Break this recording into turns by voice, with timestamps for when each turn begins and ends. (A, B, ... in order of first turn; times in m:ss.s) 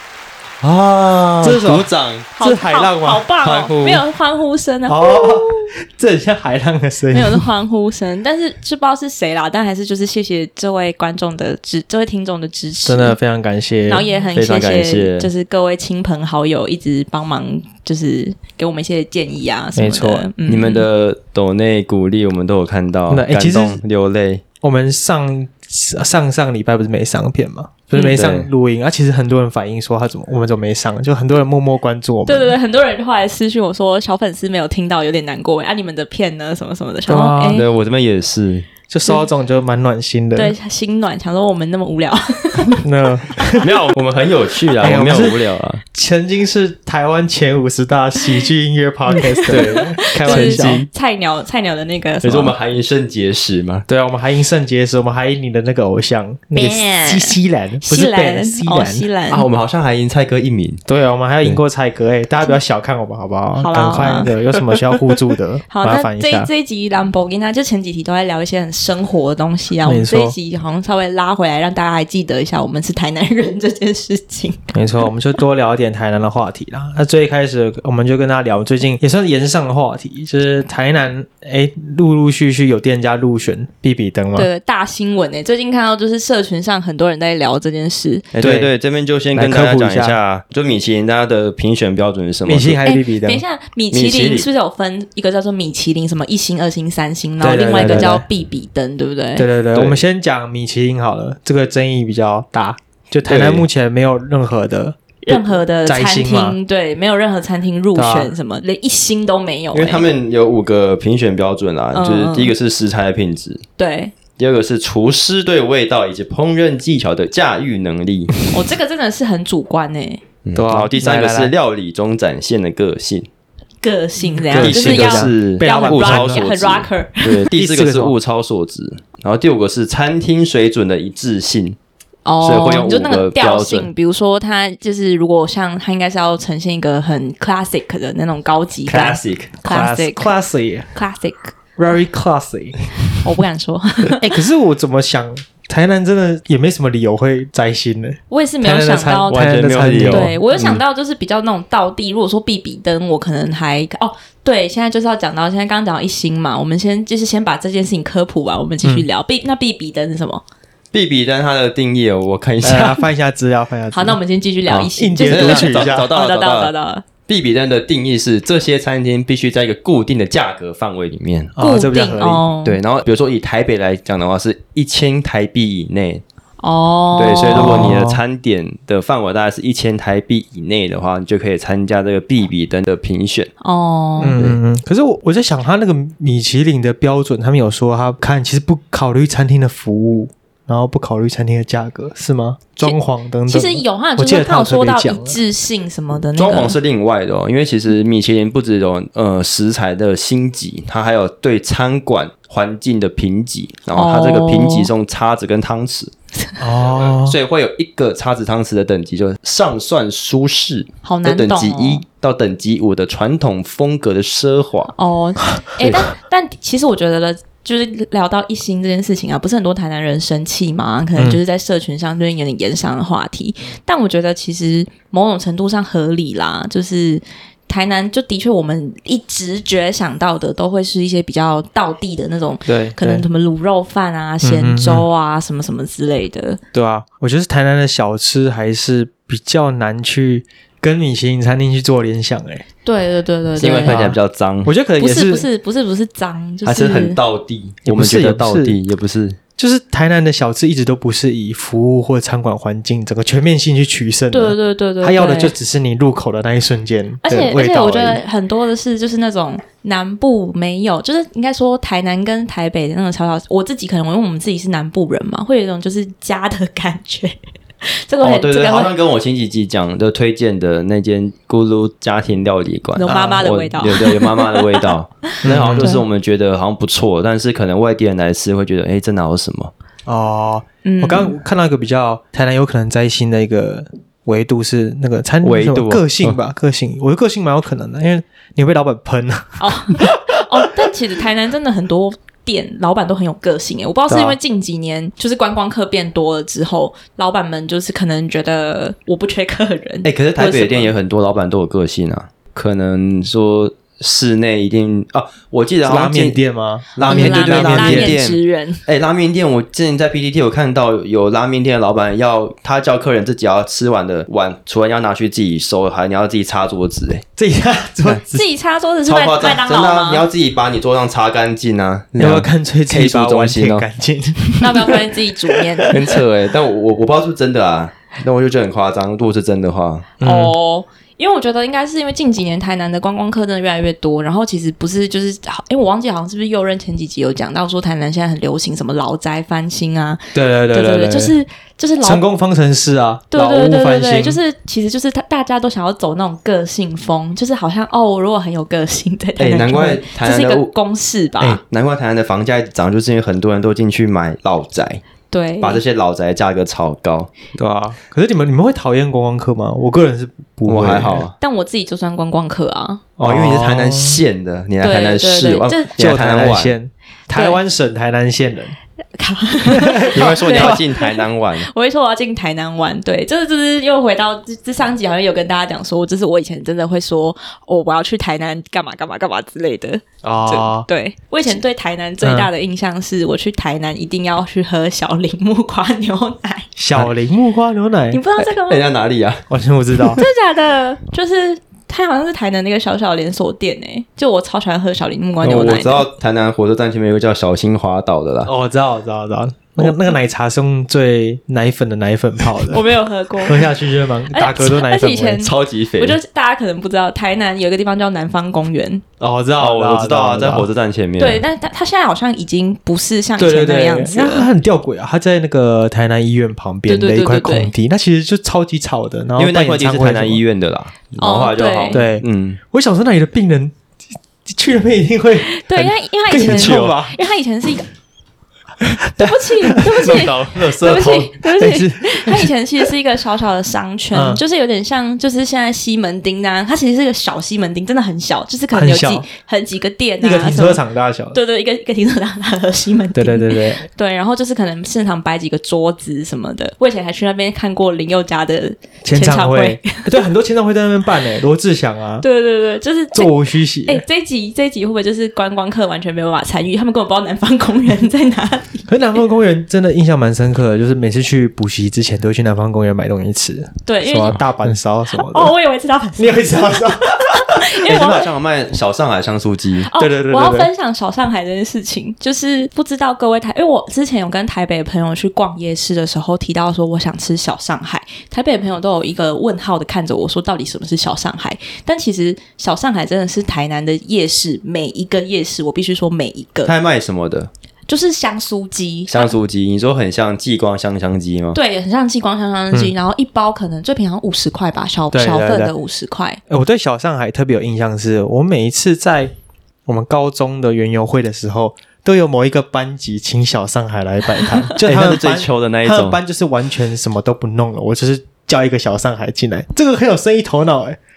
0:00.6-0:02.3 A
0:01.4-0:03.2 B
0:02.4-0:05.7 C
0:03.4-0:04.0 A
0:04.9-0:07.4 B
0:07.1-0:13.2 C
0:12.8-0:14.0 B
0:13.9-0:20.8 C
0:14.3-0:15.3 A
0:19.8-0:20.2 B
0:20.4-0:24.4 A
0:23.1-0:23.8 B
0:24.6-0:32.6 B
0:27.9-0:28.2 C
0:28.2-0:28.5 A
0:32.2-0:37.6 C
0:37.1-0:37.6 B
0:37.5-0:38.7 A
0:38.9-0:40.5 B
0:40.4-0:42.8 C
0:42.8-0:43.7 B
0:43.6-0:45.8 A
0:44.8-0:50.8 B
0:49.1-0:52.6 C
0:49.5-0:50.9 A
0:52.2-0:53.8 A
0:53.9-0:59.0 B
0:56.5-0:59.4 C
0:59.3-1:00.8 A
1:00.9-1:06.5 B
1:03.6-1:04.3 C
1:05.7-1:14.7 C
1:09.8-1:10.3 B
1:14.7-1:24.5 B
1:24.4-1:28.3 C
1:28.3-1:32.8 A
1:28.4-1:28.7 B
1:29.3-1:30.2 B
1:32.4-1:33.4 B
1:32.8-1:39.5 C
1:33.9-1:34.5 A
1:37.4-1:38.2 B
1:37.8-1:38.1 A
1:39.4-1:46.6 B
1:39.7-1:40.0 A
1:43.2-1:43.6 A
1:45.2-1:50.1 C
1:47.9-1:48.3 B
1:49.7-1:53.6 A
1:51.9-1:52.5 C
1:53.8-1:54.1 C
1:54.4-1:58.3 A
1:58.5-2:00.2 C
2:00.4-2:03.3 A
2:00.5-2:01.5 B
2:03.8-2:07.4 C
2:04.3-2:06.4 B
2:04.5-2:11.8 A
2:07.5-2:08.1 B
2:12.2-2:20.3 C
2:12.4-2:13.9 A
2:18.9-2:19.5 A
2:19.6-2:20.9 B
2:20.9-2:21.5 C
2:21.8-2:22.9 B
2:23.2-2:24.4 C
2:24.2-2:30.4 B
2:28.3-2:40.4 C
2:29.3-2:30.8 A
2:40.9-2:43.0 A
2:42.6-2:46.1 B
2:43.9-2:47.0 C
2:45.2-2:46.7 A
2:47.2-2:51.5 A
2:51.6-2:52.4 B
2:51.6-2:52.8 C
2:52.6-2:56.2 A
2:56.6-2:58.0 C
2:57.1-3:03.5 A
2:57.5-2:58.2 B
3:03.6-3:04.4 C
3:04.2-3:15.4 B
3:13.5-3:16.8 C
3:16.4-3:26.1 A
3:23.9-3:24.9 C
3:26.6-3:27.4 B
3:26.8-3:34.9 A
3:31.0-3:32.0 C
3:34.9-3:56.6 C
3:35.8-3:36.0 A
3:52.6-3:53.2 B
3:54.4-3:55.0 B
3:56.7-4:02.6 B
4:02.8-4:04.0 C
4:03.6-4:04.7 A
4:03.7-4:05.5 B
4:05.0-4:07.2 C
4:06.6-4:09.4 A
4:07.8-4:08.8 B
4:09.6-4:18.2 B
4:14.3-4:15.5 C
4:17.2-4:28.9 C
4:28.2-4:39.7 A
4:33.0-4:36.0 C
4:33.1-4:33.4 B
4:35.4-4:35.9 B
4:40.0-4:50.7 B
4:40.8-4:41.4 C
4:45.4-4:46.4 A
4:49.6-5:00.9 C
5:00.0-5:06.4 A
5:05.8-5:08.2 B
5:07.0-5:17.2 A
5:07.0-5:08.8 C
5:17.4-5:18.4 B
5:18.3-5:20.2 C
5:19.0-5:23.8 A
5:22.2-5:26.1 B
5:24.6-5:26.1 C
5:25.9-5:30.1 A
5:30.2-5:30.5 B
5:30.2-5:42.2 C
5:40.3-5:41.3 B
5:42.0-5:44.4 B
5:43.3-5:51.6 C
5:49.4-5:50.7 A
5:51.4-5:55.0 A
5:55.3-5:55.8 C
5:55.6-5:57.3 A
5:57.6-6:01.2 B
6:00.7-6:01.3 A
6:01.4-6:03.0 C
6:03.2-6:04.2 B
6:03.2-6:06.8 A
6:04.8-6:06.0 C
6:06.0-6:08.7 B
6:07.3-6:07.6 C
6:09.2-6:26.7 C
6:09.7-6:10.8 B
6:10.0-6:11.7 A
6:20.2-6:20.9 B
6:22.2-6:22.5 B
6:26.8-6:28.2 B
6:28.1-6:28.8 C
6:28.4-6:29.4 A
6:29.5-6:30.2 B
6:30.1-6:36.1 C
6:35.4-6:38.5 A
6:38.4-6:42.8 B
6:42.7-6:43.7 C
6:43.4-6:45.4 B
6:44.3-6:49.0 C
6:45.4-6:46.2 A
6:49.2-6:50.7 B
6:49.6-6:51.4 A
6:51.2-6:54.5 C
6:53.4-7:00.4 B
6:56.9-6:57.7 C
6:59.4-7:02.6 A
7:01.2-7:02.0 C
7:01.9-7:03.8 B
7:04.4-7:07.2 B
7:05.4-7:07.9 C
7:06.4-7:07.0 A
7:09.2-7:20.8 C
7:09.2-7:11.4 A
7:11.6-7:12.5 B
7:14.1-7:14.4 B
7:18.7-7:19.2 B
7:20.2-7:21.4 B
7:21.3-7:30.2 C
7:23.2-7:23.9 B
7:29.0-7:32.2 B
7:32.2-7:38.9 C
7:33.1-7:34.0 B
7:38.9-7:45.5 B
7:43.8-7:44.4 C
7:45.1-7:48.3 C
7:46.2-7:47.8 B
7:47.8-7:49.9 A
7:49.8-8:06.7 C
7:50.0-7:50.7 B
8:06.6-8:07.5 A
8:07.9-8:09.4 C
8:09.1-8:11.6 A
8:11.5-8:16.4 C
8:15.1-8:15.7 B
8:16.5-8:19.3 B
8:19.8-8:31.0 B
8:24.8-8:26.2 A